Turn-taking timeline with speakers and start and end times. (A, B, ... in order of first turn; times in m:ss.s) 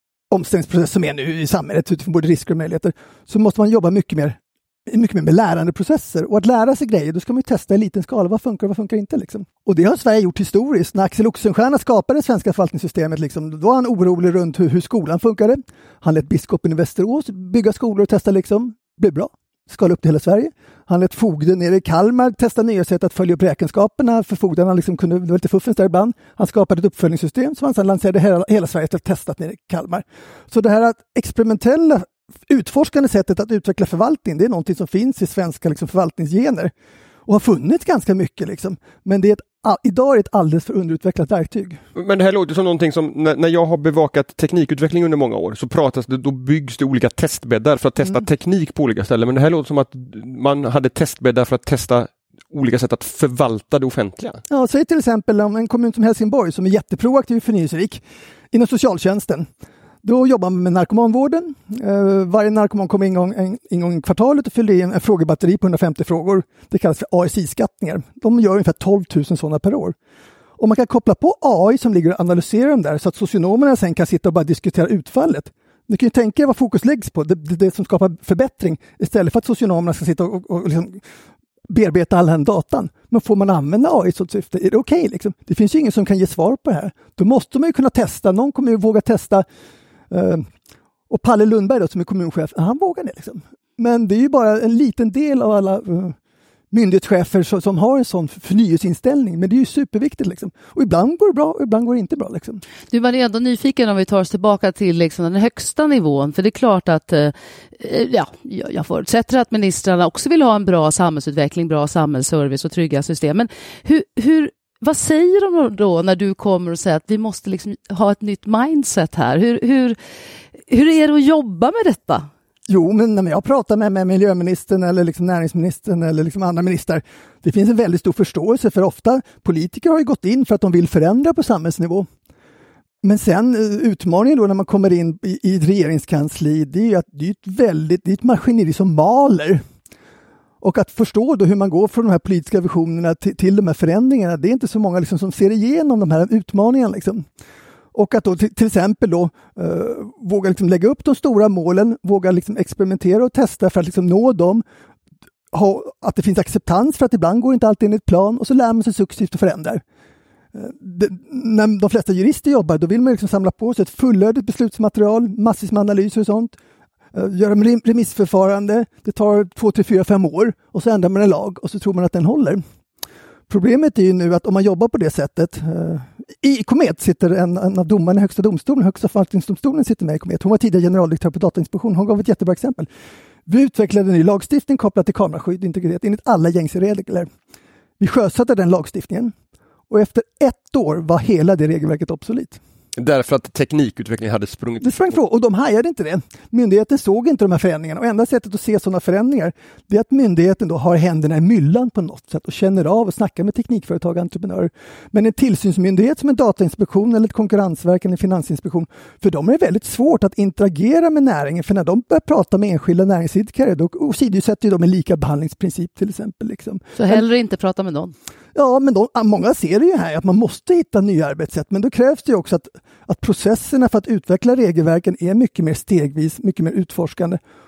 0:00.3-0:36.7 A
0:37.3-0:41.8 A
0:42.0-0:54.4 B
0:54.5-0:59.5 A
1:00.0-1:10.0 A
1:10.6-1:21.0 A
1:21.7-1:29.4 A
1:30.1-1:30.5 A
1:31.1-1:36.2 A
1:36.7-1:42.6 A
1:42.9-2:00.0 C
2:00.7-2:02.3 C
2:02.7-2:12.1 A
2:13.0-2:19.6 A
2:20.6-2:27.3 A
2:27.9-2:34.6 A
2:35.5-2:39.8 A
2:40.5-2:46.6 A
2:47.1-2:52.6 A
2:53.5-3:02.9 A
3:03.5-3:07.3 A
3:08.0-3:09.3 A
3:09.9-3:12.6 A
3:13.0-3:15.1 B
3:14.8-3:37.2 A
3:37.0-3:38.1 C
3:38.6-3:47.4 A